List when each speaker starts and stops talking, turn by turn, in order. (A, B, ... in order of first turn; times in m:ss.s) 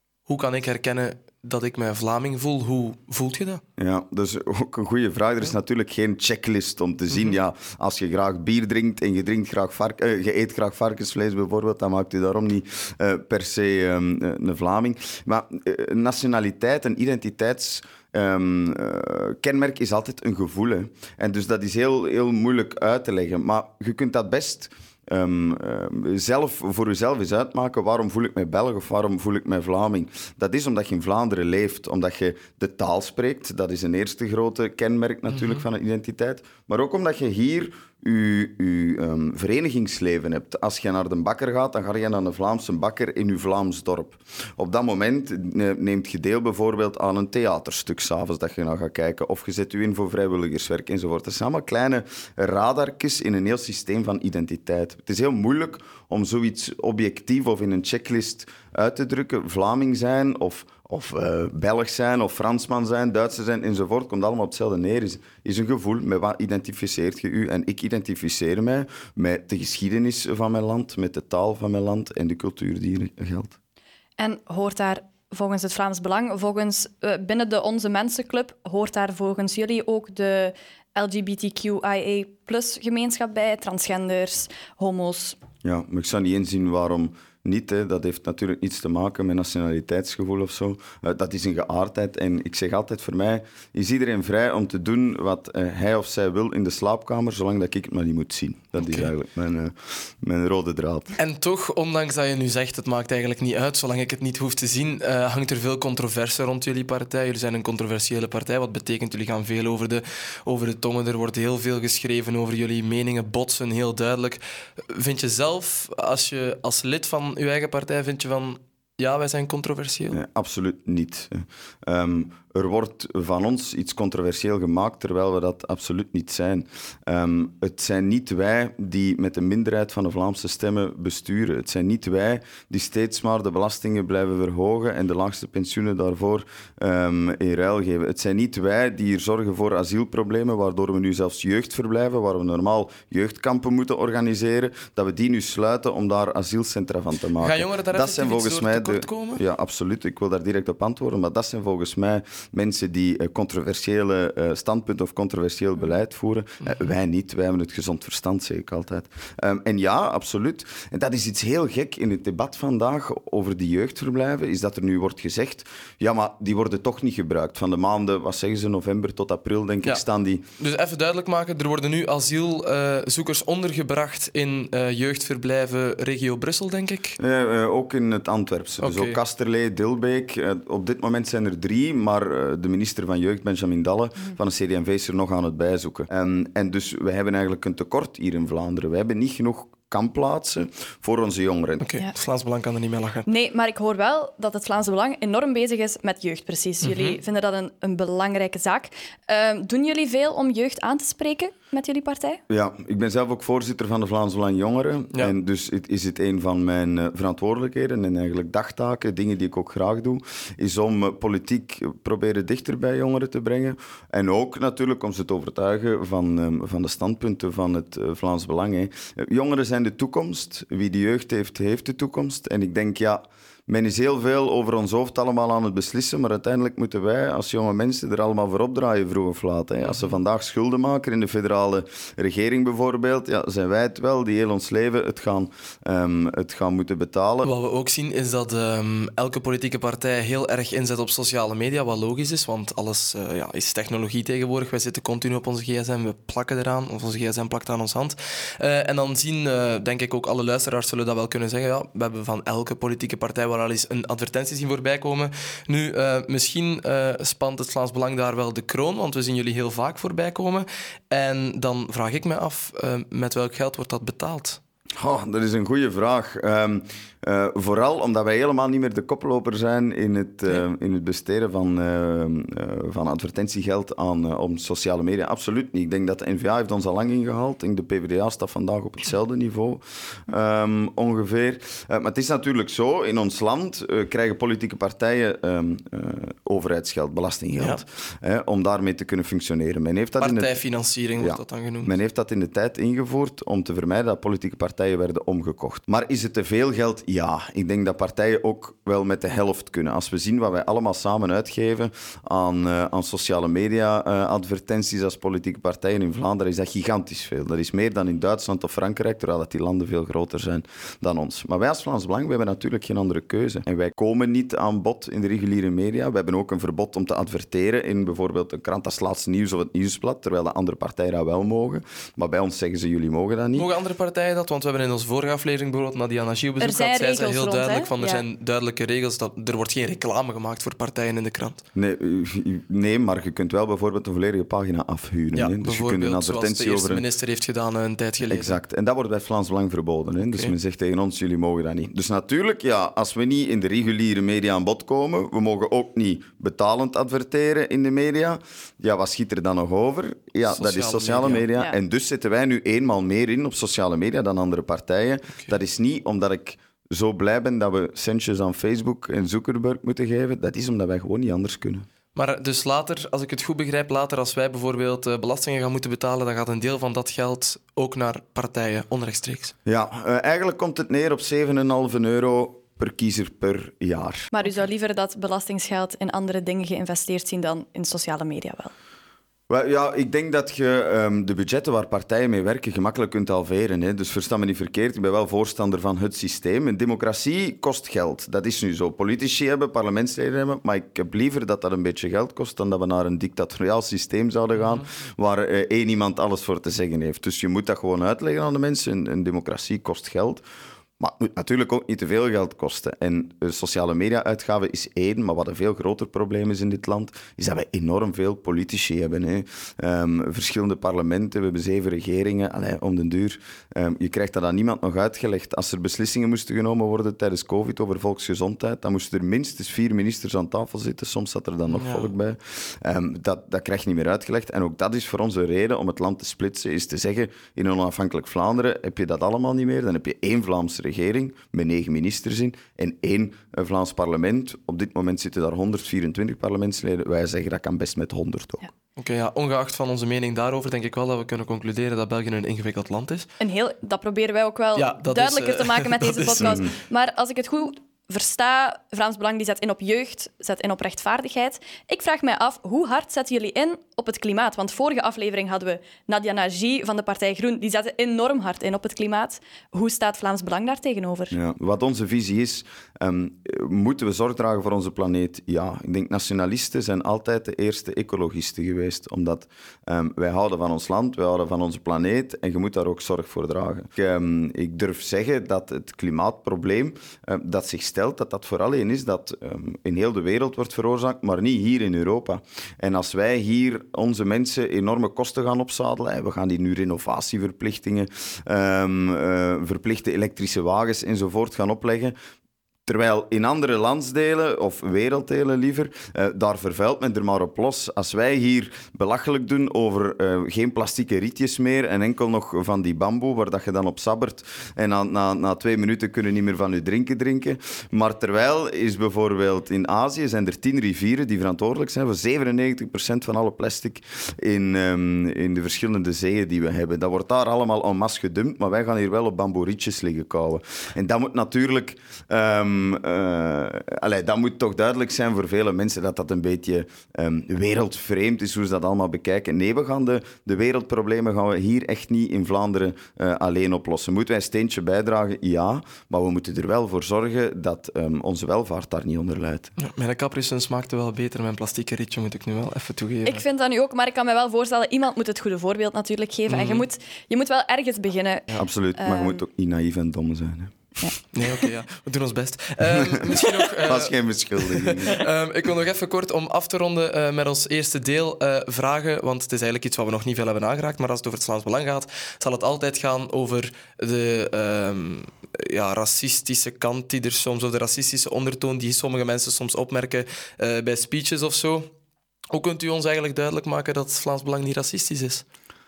0:00.2-0:03.6 A
0:03.8-1:13.6 B
0:07.1-0:07.4 A
0:35.3-0:35.6 A
1:14.2-1:25.4 C
1:25.6-1:41.2 B
1:38.8-1:39.1 A
1:41.2-2:00.2 A
2:00.1-2:50.4 B
2:27.4-2:29.4 A
2:36.6-2:36.9 A
2:50.6-2:57.2 A
2:57.2-3:11.8 B
2:58.8-2:59.2 A
3:11.8-3:13.3 A
3:13.2-3:22.4 C
3:16.8-3:17.2 A
3:22.5-3:57.5 B
3:49.8-3:50.1 A
3:57.4-4:24.6 A
4:25.0-4:50.5 B
4:50.2-4:51.9 A
4:51.2-5:23.7 B
5:23.6-5:31.6 A
5:26.6-5:28.2 C
5:31.7-5:37.0 B
5:35.3-5:38.6 A
5:38.2-6:01.9 B
5:40.3-5:40.5 A
5:50.5-5:51.4 A
6:02.1-6:09.5 A
6:09.6-6:14.3 B
6:14.3-6:18.7 C
6:19.5-6:40.4 B
6:34.6-6:34.8 A
6:41.0-7:18.6 B
7:01.7-7:02.1 A
7:19.0-7:23.3 A
7:23.4-7:41.3 C
7:24.8-7:26.6 A
7:26.4-7:26.7 B
7:41.3-8:12.2 B
8:12.8-8:59.7 B
8:59.8-9:03.4 A
9:03.2-9:09.4 C
9:06.5-9:06.9 A
9:08.5-9:11.0 B
9:11.3-9:31.9 A
9:13.8-9:15.2 B
9:32.5-9:35.4 A